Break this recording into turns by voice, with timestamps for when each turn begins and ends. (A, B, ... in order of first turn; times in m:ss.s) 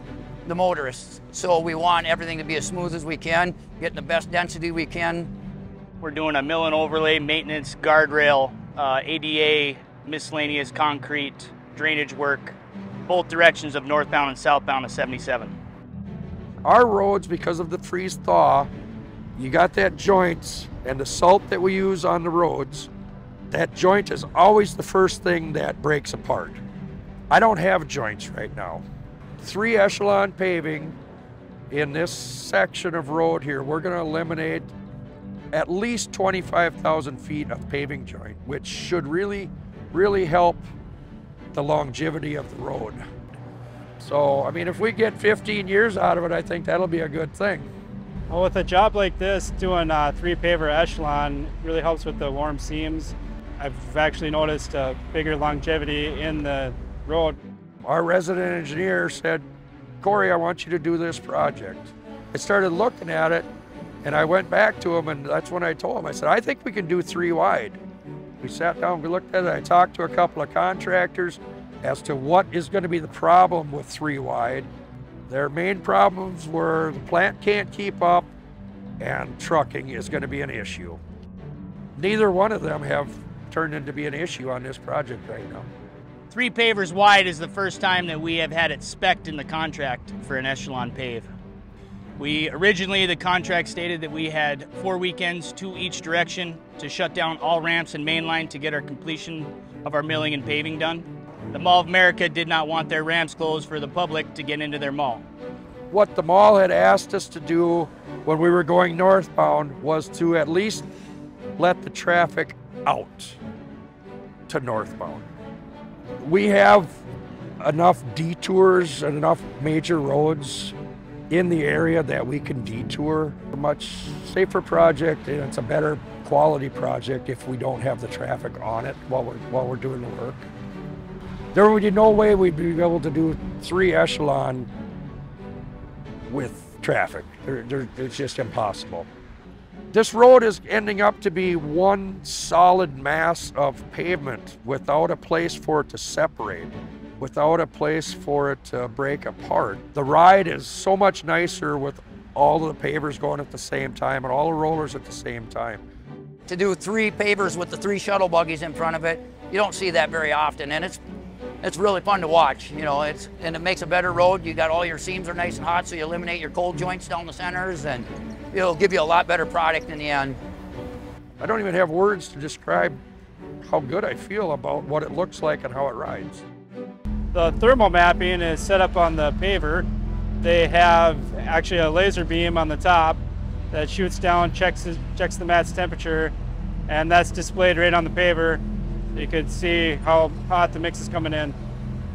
0:00.4-0:05.3 A
0:06.0-0:15.5 B
0:16.6-0:18.7 C
0:19.4-0:22.9 C
0:23.5-0:26.6 C
0:27.3-0:28.8 C
0:29.4-0:31.0 C
0:31.7-0:34.7 C
0:35.5-0:40.6 C
0:41.5-0:43.0 C
0:44.0-0:47.7 C
0:48.3-0:57.4 D
0:57.8-0:59.4 C
1:00.0-1:03.5 C
1:04.0-1:07.8 C
1:08.4-1:14.7 C
1:15.3-1:18.3 C
1:19.0-1:21.0 C
1:22.0-1:25.7 C
1:26.3-1:31.3 B
1:32.2-1:45.2 B
1:45.9-1:50.8 C
1:51.6-1:53.4 C
1:54.5-1:55.3 C
1:56.2-1:56.9 C
1:57.6-2:00.7 C
2:01.3-2:10.4 C
2:11.5-2:14.7 C
2:16.3-2:19.1 C
2:19.9-2:35.8 C
2:36.5-2:41.0 A
2:41.6-2:50.4 A
2:51.4-2:53.0 C
2:53.6-2:56.4 C
2:57.3-2:59.9 D
3:00.4-3:03.2 D
3:03.7-3:06.3 D
3:06.9-3:08.6 D
3:09.1-3:11.6 D